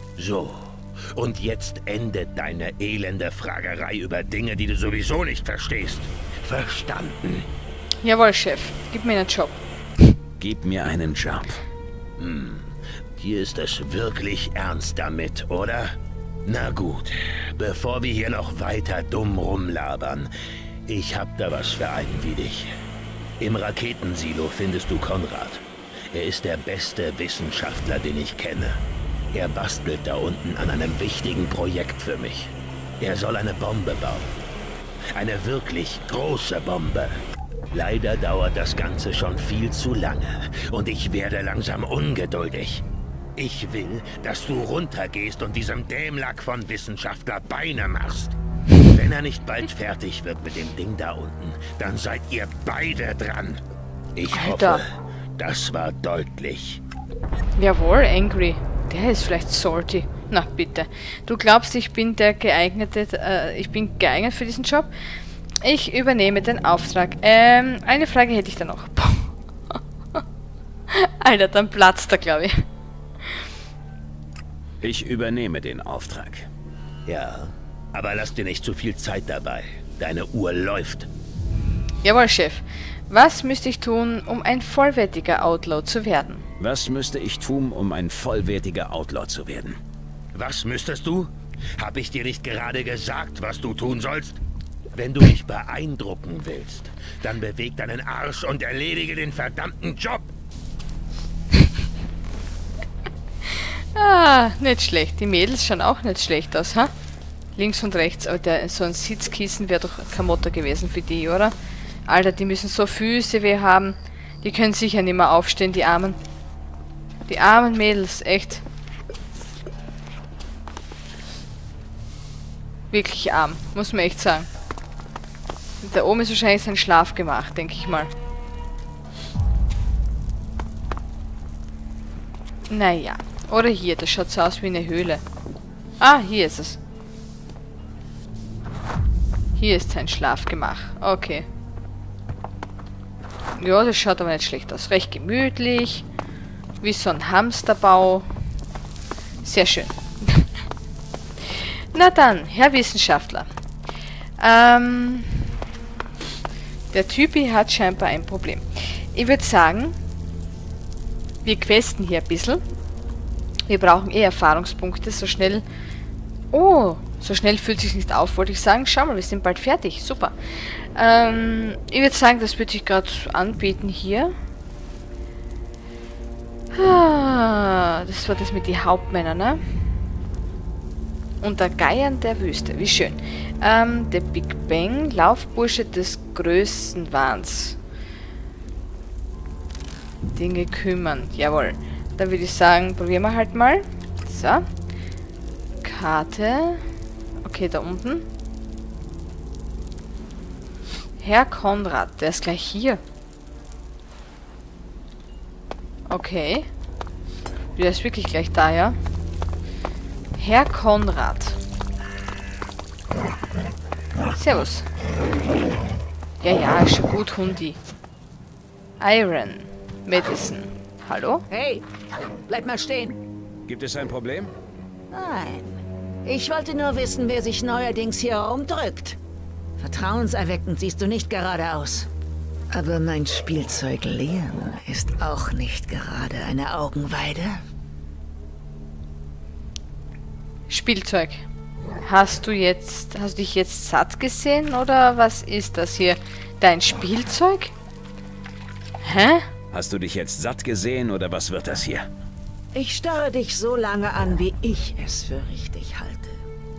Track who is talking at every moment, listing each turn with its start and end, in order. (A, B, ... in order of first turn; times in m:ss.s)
0:00.2-0:07.5 A
0:08.0-0:09.6 B
0:10.4-0:11.6 C
0:12.2-0:16.0 A
0:16.5-0:20.3 A
0:20.9-0:22.7 A
0:23.4-0:28.8 A
0:29.3-0:34.3 A
0:35.1-0:37.2 A
0:37.7-0:42.8 A
0:43.4-0:53.6 A
0:54.2-0:54.8 A
0:54.3-0:54.8 B
0:55.4-0:56.8 A
0:57.6-1:04.9 B
1:05.6-1:10.2 B
1:10.9-1:12.6 B
1:14.8-1:16.5 C
1:17.1-1:21.1 A
1:22.0-1:26.4 B
1:26.6-1:29.8 C
1:30.3-1:34.4 A
1:34.9-1:40.3 A
1:43.5-1:46.9 B
1:47.6-1:51.5 B
1:52.1-1:56.2 B
1:57.3-1:58.6 B
2:02.9-2:04.5 B
2:05.8-2:08.1 B
2:12.7-2:15.2 B
2:16.0-2:16.8 B
2:19.6-2:21.5 B
2:23.6-2:26.0 B
2:26.8-2:28.3 B
2:29.4-2:30.5 B
2:31.4-2:33.5 B
2:34.4-2:35.5 B
2:36.9-2:40.0 B
2:41.4-2:42.6 B
2:43.7-2:45.6 B
2:46.5-2:54.3 B
2:56.7-2:59.6 B
3:01.4-3:07.8 B
3:10.3-3:14.6 B
3:15.8-3:16.8 B
3:17.4-3:18.2 B
3:21.2-3:23.0 B
3:26.1-3:26.7 B
3:27.8-3:29.0 B
3:30.4-3:31.6 B
3:34.3-3:34.8 B
3:36.4-3:37.8 B
3:39.0-3:41.4 B
3:41.5-3:41.8 D
3:42.5-3:43.2 D
3:43.7-3:44.5 C
3:45.1-3:49.2 D
3:49.8-3:52.1 D
3:52.7-3:57.6 D
4:00.7-4:01.4 B
4:02.0-4:07.7 B
4:09.0-4:09.4 B
4:09.7-4:12.1 C
4:12.7-4:16.4 D